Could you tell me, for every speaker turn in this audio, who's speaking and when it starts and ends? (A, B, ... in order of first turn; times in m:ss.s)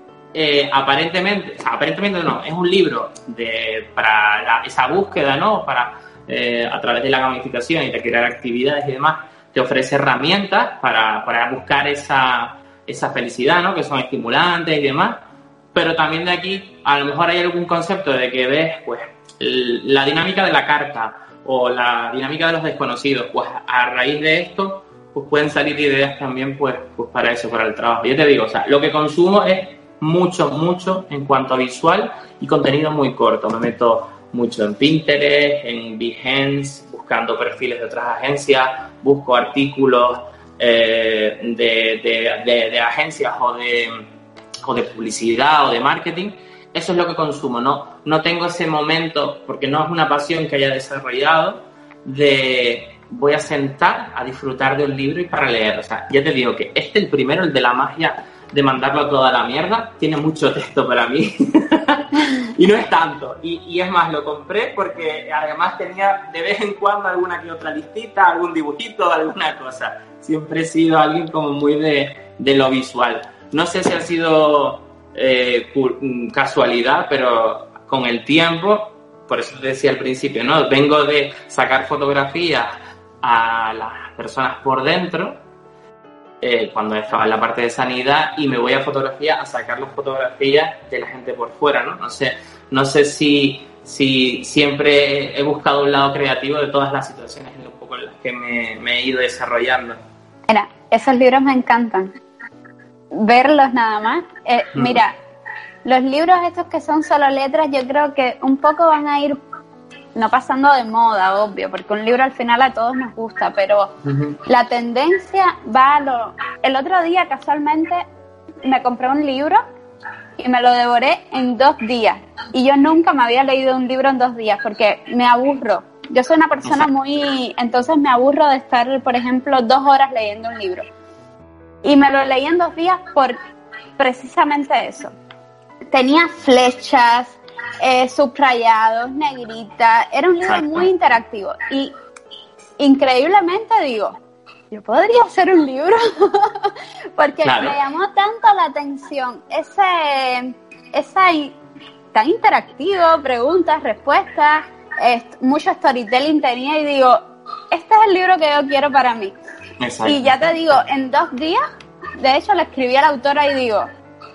0:00.3-0:15.2 A
0:15.7-0:44.1 A
0:44.6-1:22.7 A
1:23.2-1:25.4 A
1:26.4-1:40.0 A
1:40.5-1:42.2 B
1:43.1-1:45.2 B
1:44.8-1:45.0 A
1:45.8-1:49.4 B
1:50.2-1:53.9 B
1:54.1-1:54.4 A
1:54.5-1:58.0 B
1:58.6-1:59.6 B
2:00.4-2:10.9 B
2:06.6-2:06.9 A
2:11.8-2:13.4 B
2:14.0-2:15.1 B
2:15.9-2:21.9 B
2:20.4-2:20.9 A
2:22.8-2:24.2 B
2:24.7-2:31.6 B
2:27.4-2:27.8 A
2:32.1-2:39.4 B
2:39.8-2:40.4 A
2:40.0-2:41.6 B
2:42.2-2:43.9 B